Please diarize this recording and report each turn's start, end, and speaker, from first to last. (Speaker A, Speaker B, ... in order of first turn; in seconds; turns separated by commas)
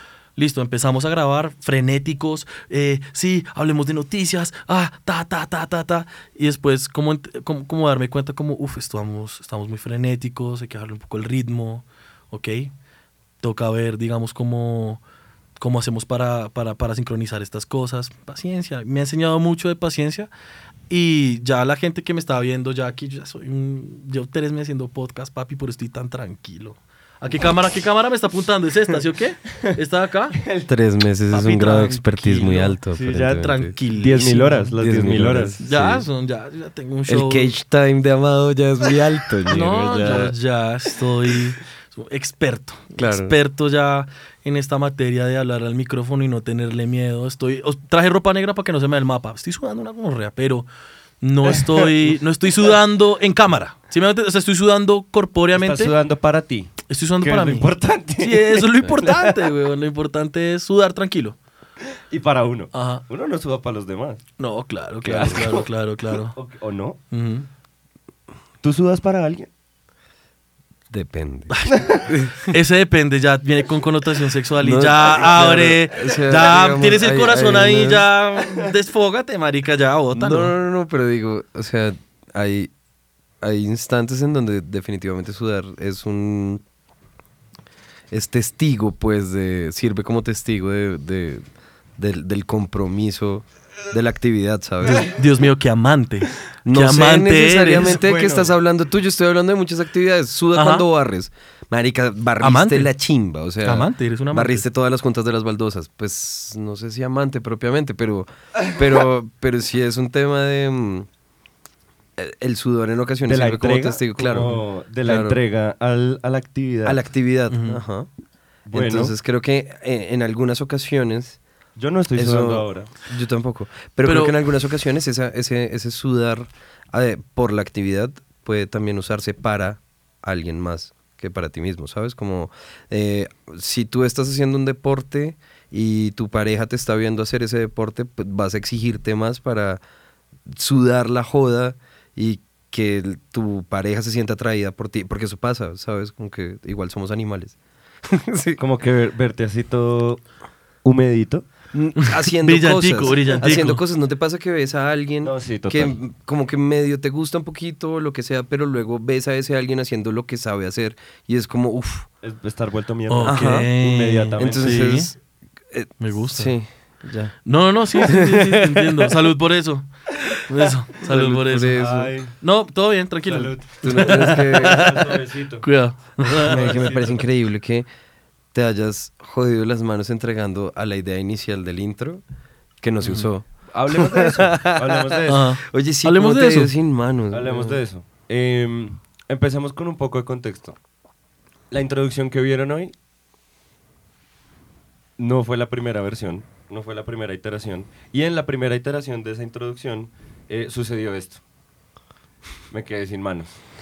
Speaker A: 0.3-12.7, Speaker A: 13.4-15.0, Speaker A: 15.6-20.3, Speaker A: 20.9-30.4, Speaker B: 30.4-30.7, Speaker C: 30.7-33.7, Speaker A: 31.3-34.7, Speaker B: 33.0-33.4, Speaker B: 34.0-35.6, Speaker C: 34.8-36.0, Speaker A: 35.6-37.5, Speaker C: 37.1-40.3, Speaker A: 39.5-50.7, Speaker C: 43.0-43.4, Speaker A: 51.2-55.9, Speaker B: 51.5-52.2, Speaker B: 55.5-59.3, Speaker A: 56.9-61.4, Speaker B: 62.1-64.2, Speaker A: 62.7-63.0, Speaker A: 64.4-66.3, Speaker B: 65.0-67.0, Speaker A: 67.1-67.5, Speaker B: 68.6-69.5, Speaker C: 70.9-72.5, Speaker A: 71.5-71.8, Speaker B: 71.7-72.0, Speaker A: 72.5-80.5, Speaker C: 74.6-78.1, Speaker C: 80.1-82.7, Speaker C: 83.4-86.6, Speaker C: 88.1-91.4, Speaker C: 92.0-95.1, Speaker A: 94.9-98.0, Speaker C: 96.6-111.1, Speaker B: 98.0-98.5, Speaker A: 100.5-100.8, Speaker A: 102.4-102.9, Speaker A: 103.6-104.6, Speaker C: 112.2-115.4, Speaker B: 113.3-117.0, Speaker C: 116.8-118.1, Speaker A: 117.5-117.8, Speaker B: 118.7-119.1, Speaker C: 118.7-121.4, Speaker B: 121.8-122.9, Speaker C: 122.1-139.8, Speaker A: 124.0-124.3, Speaker C: 140.5-147.6, Speaker C: 148.1-148.6, Speaker B: 148.6-150.2, Speaker B: 150.8-151.4, Speaker C: 151.7-162.1, Speaker A: 152.0-153.8, Speaker B: 155.2-156.0, Speaker B: 162.2-164.8, Speaker A: 163.1-165.1, Speaker C: 163.2-163.7, Speaker C: 164.4-165.2, Speaker C: 165.7-167.3, Speaker A: 166.0-166.6, Speaker A: 167.4-171.8, Speaker C: 167.9-169.1, Speaker C: 171.0-172.1, Speaker B: 171.8-172.3, Speaker A: 172.4-174.9, Speaker B: 173.2-175.7, Speaker C: 173.8-174.9, Speaker A: 175.6-176.9, Speaker C: 176.3-177.9, Speaker B: 176.4-177.2, Speaker C: 178.5-182.2, Speaker C: 182.8-187.8, Speaker A: 183.0-183.3, Speaker B: 183.7-185.4, Speaker A: 185.3-186.7, Speaker B: 187.3-190.8, Speaker B: 191.7-192.9, Speaker B: 195.2-201.4, Speaker B: 202.7-203.6